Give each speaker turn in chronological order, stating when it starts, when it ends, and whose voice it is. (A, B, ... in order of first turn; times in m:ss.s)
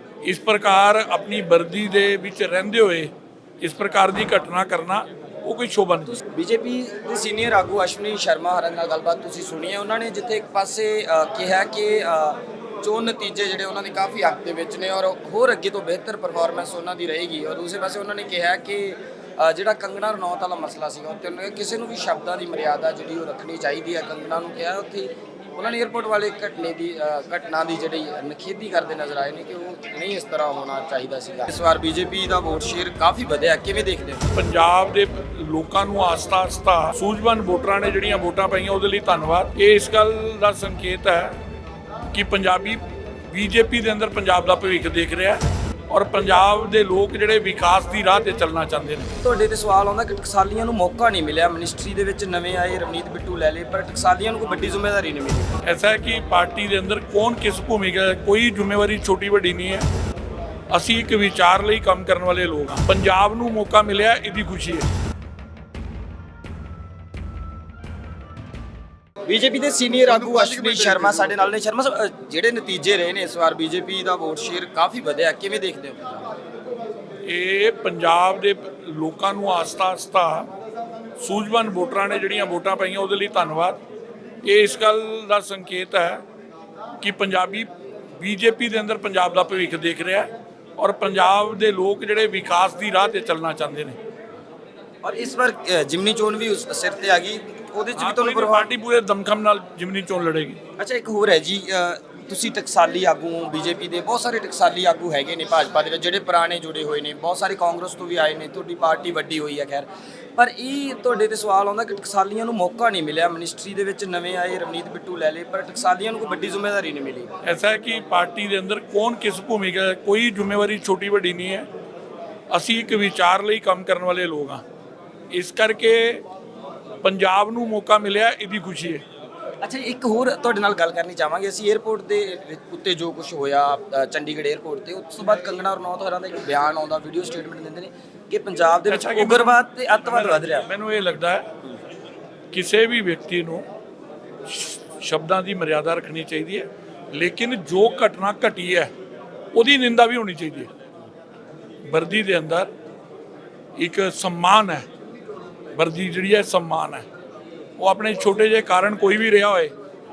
0:00.2-0:06.2 A
0:06.2-0:34.2 B
0:34.3-0:41.4 A
0:42.1-0:49.1 A
0:49.2-0:55.5 B
0:55.6-0:59.9 A
1:00.7-1:04.9 A
1:09.3-1:16.3 B
1:17.2-1:20.5 A
1:21.2-1:23.8 A
1:24.4-1:26.2 A
1:27.0-1:34.0 A
1:35.0-1:38.7 B
1:38.0-1:40.6 A
1:40.8-1:57.3 B
1:57.4-2:01.7 A
2:02.5-2:04.6 A
2:05.3-2:06.2 A
2:07.0-2:09.0 A
2:09.6-2:20.7 B
2:18.9-2:21.5 A
2:22.5-2:23.6 A
2:24.4-2:28.9 A
2:29.5-2:30.7 A
2:31.9-2:32.7 A
2:33.8-2:34.8 A
2:35.7-2:37.0 A
2:37.8-2:39.7 A